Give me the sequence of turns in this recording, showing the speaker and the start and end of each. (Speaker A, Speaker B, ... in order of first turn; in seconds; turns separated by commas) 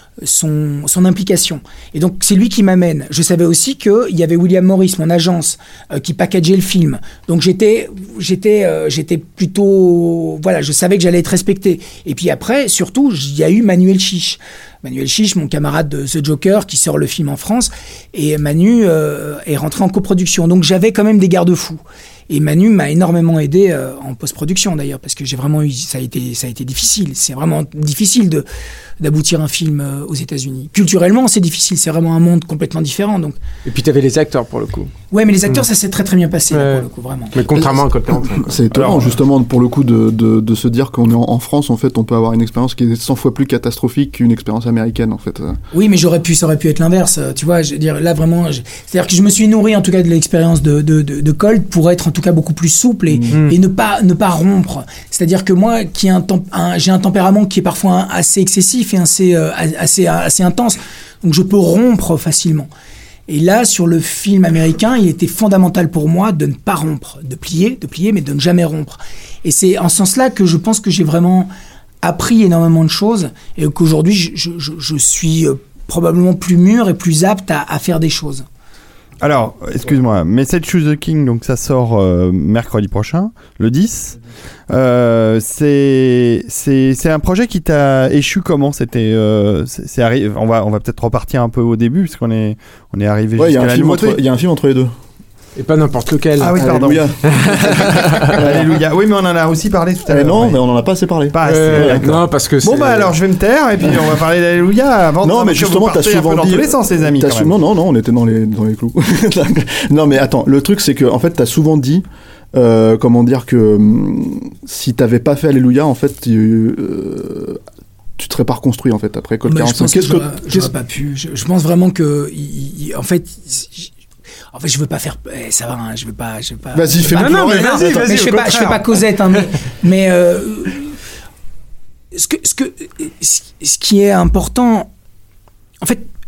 Speaker A: 0.2-28.5, Speaker A: 29.0-33.4, Speaker B: 33.6-34.9, Speaker A: 35.1-37.8, Speaker B: 36.5-38.5, Speaker C: 38.1-45.6, Speaker D: 38.7-39.1, Speaker A: 45.7-62.7, Speaker B: 53.3-53.6, Speaker A: 63.3-71.5, Speaker A: 72.0-78.5, Speaker D: 79.2-84.2, Speaker D: 84.7-94.2, Speaker C: 93.4-94.9, Speaker B: 95.6-98.4, Speaker D: 96.4-100.6, Speaker C: 96.5-98.8, Speaker C: 100.1-102.0, Speaker D: 101.3-107.5, Speaker B: 101.5-103.1, Speaker C: 105.2-117.6, Speaker C: 118.2-120.7, Speaker A: 119.5-123.9, Speaker A: 124.5-130.9, Speaker C: 126.7-128.4, Speaker B: 127.1-129.0, Speaker A: 132.1-134.9, Speaker A: 135.8-136.1